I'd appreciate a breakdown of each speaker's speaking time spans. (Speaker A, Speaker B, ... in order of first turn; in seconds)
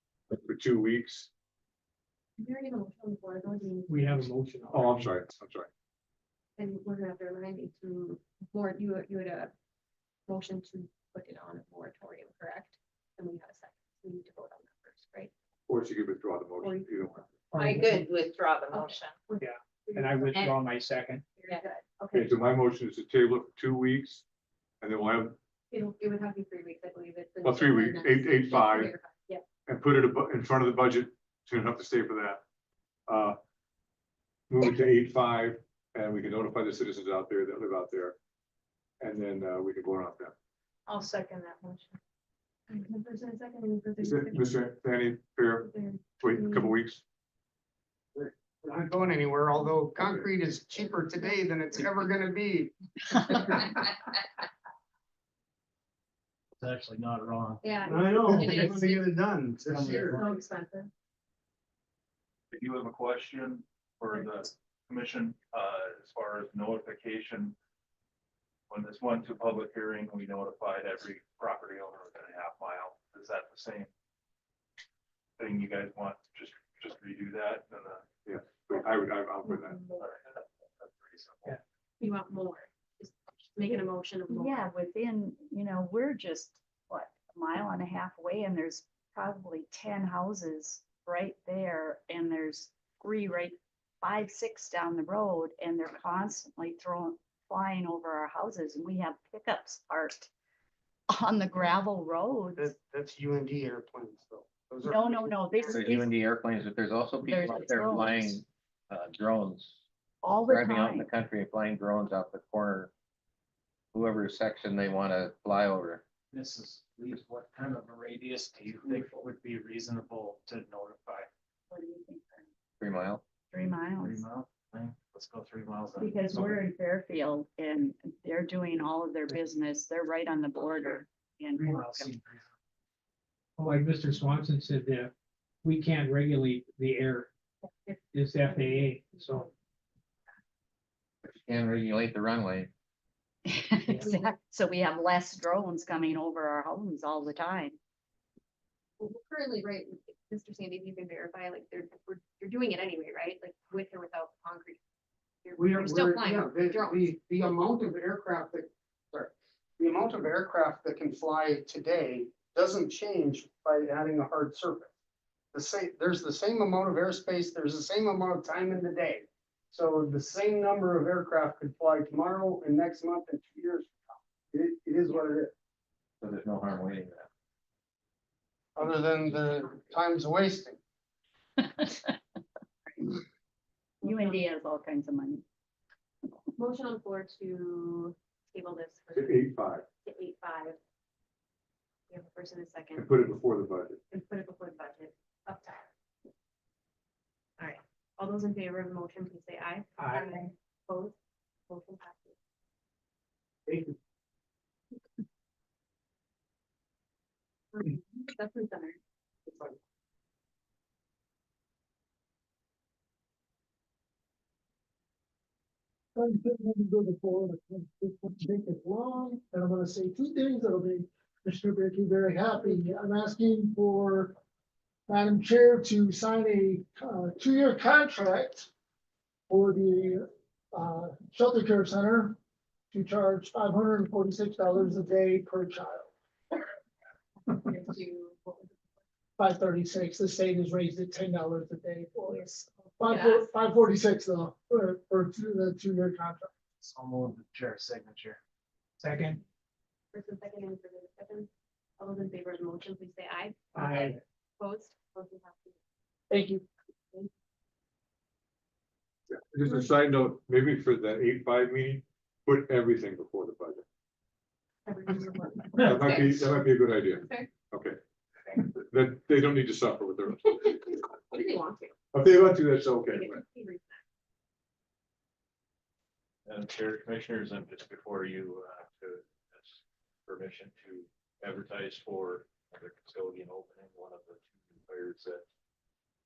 Speaker A: 0.3-1.3, 4.7-5.7, 15.7-17.3, 22.1-24.2, 24.8-25.4, 27.4-28.9, 29.6-32.4, 33.1-33.4, 34.5-38.1, 39.0-40.3, 44.0-45.7, 46.2-47.0, 50.0-50.3, 78.2-79.8, 189.1-189.8, 193.0-194.0, 259.3-263.8, 265.8-268.0, 268.6-270.7, 272.1-273.4
Speaker B: 2.4-4.3, 6.6-9.5, 10.3-15.3, 16.6-16.9, 18.7-20.5, 21.4-22.4, 25.7-29.4, 40.9-42.0, 42.7-44.5, 45.6-46.7, 57.6-59.0, 59.9-60.9, 79.4-80.0, 82.0-84.7, 144.0-144.3, 149.0-154.8, 155.4-157.1, 184.1-184.4, 186.5-189.5, 190.0-190.8, 192.1-193.1, 194.1-195.9, 197.6-201.2, 201.7-202.3, 207.7-209.0, 237.5-238.7, 243.0-243.5, 250.1-255.8, 264.9-265.9, 267.2-267.5, 271.3-271.8, 273.1-274.0
Speaker C: 4.2-5.1, 17.5-18.0, 20.0-21.2, 133.6-134.7, 135.7-137.1, 138.2-139.2, 249.0-249.4, 253.8-254.0
Speaker D: 17.6-19.1, 265.9-266.4
Speaker E: 48.1-52.7, 57.9-60.2, 102.5-105.9, 155.6-164.9, 165.5-175.5, 178.8-180.8, 203.7-203.9, 209.5-209.7
Speaker F: 56.6-57.6, 59.6-60.4, 116.3-121.3, 124.0-126.6, 131.7-132.4, 246.8-248.4
Speaker G: 62.5-67.5, 68.7-73.9, 75.4-78.1, 79.9-81.6, 276.4-285.4
Speaker H: 84.3-100.3, 101.1-102.7, 104.8-106.1, 107.2-108.4, 110.2-111.1, 121.7-122.5, 123.5-124.3, 126.0-132.1, 143.4-147.8, 181.6-182.1, 184.0-185.4
Speaker I: 105.7-109.8, 110.5-112.9, 113.9-116.0, 122.8-123.2, 141.2-142.7, 176.2-177.3
Speaker J: 216.1-224.4, 225.1-228.7, 229.5-232.3, 232.9-236.1, 239.4-246.5, 256.3-256.6